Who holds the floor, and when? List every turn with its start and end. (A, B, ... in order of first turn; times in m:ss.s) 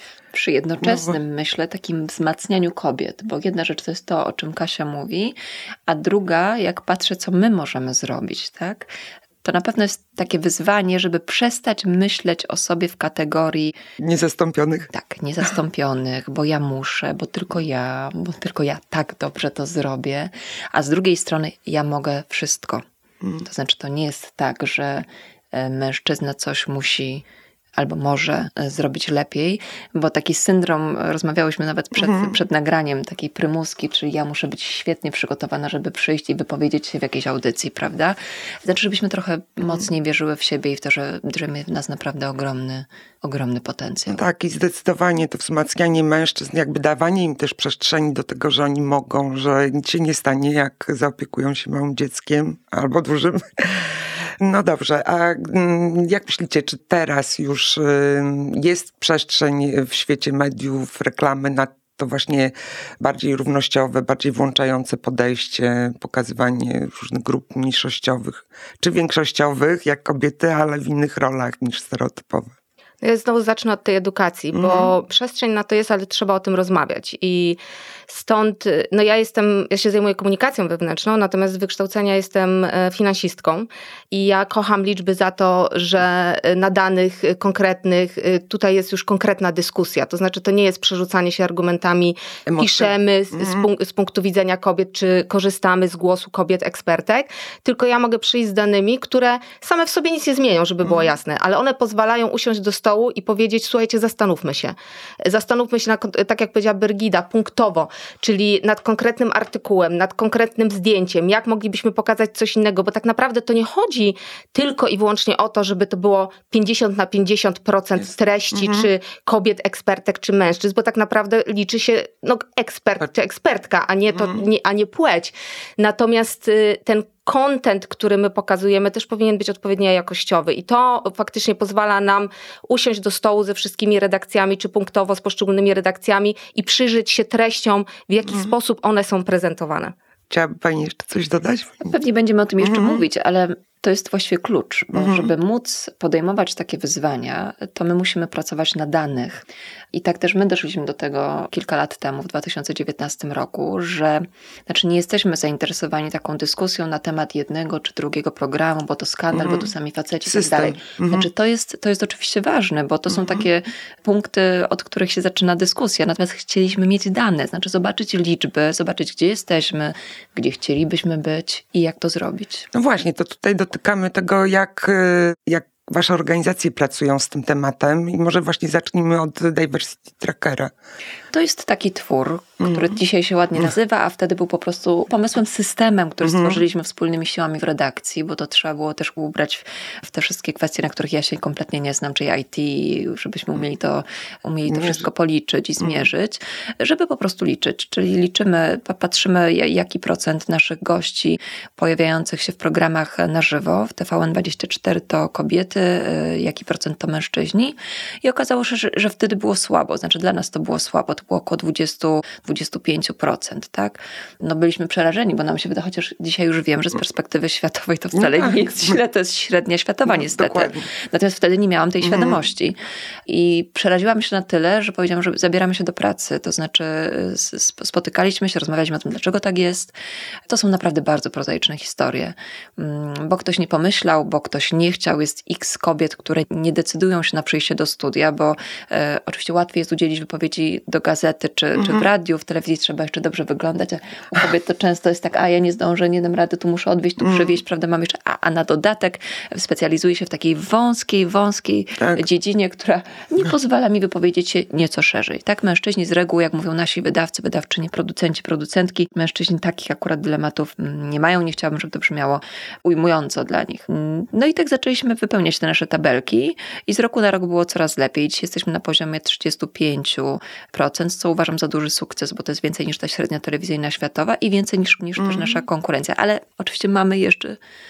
0:00.3-0:05.4 A
0:05.9-0:08.9 A
0:09.4-0:13.7 A
0:14.0-0:14.9 B
0:14.9-0:22.8 A
0:23.4-0:27.2 A
0:27.8-0:44.2 A
0:32.0-0:32.3 B
0:44.1-1:12.5 B
1:13.0-2:19.9 C
1:14.5-1:14.9 B
1:32.5-1:33.7 B
1:58.5-1:58.9 B
2:04.2-2:04.4 B
2:20.3-2:21.9 B
2:21.8-2:52.7 A
2:22.6-2:23.0 B
2:25.0-2:25.3 B
2:39.3-2:39.7 B
2:40.3-2:41.3 B
2:43.1-2:43.4 B
2:52.7-3:00.7 B
3:01.3-3:49.9 A
3:02.6-3:03.0 B
3:06.2-3:06.6 B
3:14.7-3:15.0 B
3:38.2-3:39.0 B
3:40.1-3:40.9 B
3:42.0-3:42.4 B
3:50.5-4:37.6 A
4:12.0-4:12.2 B
4:35.2-4:35.6 B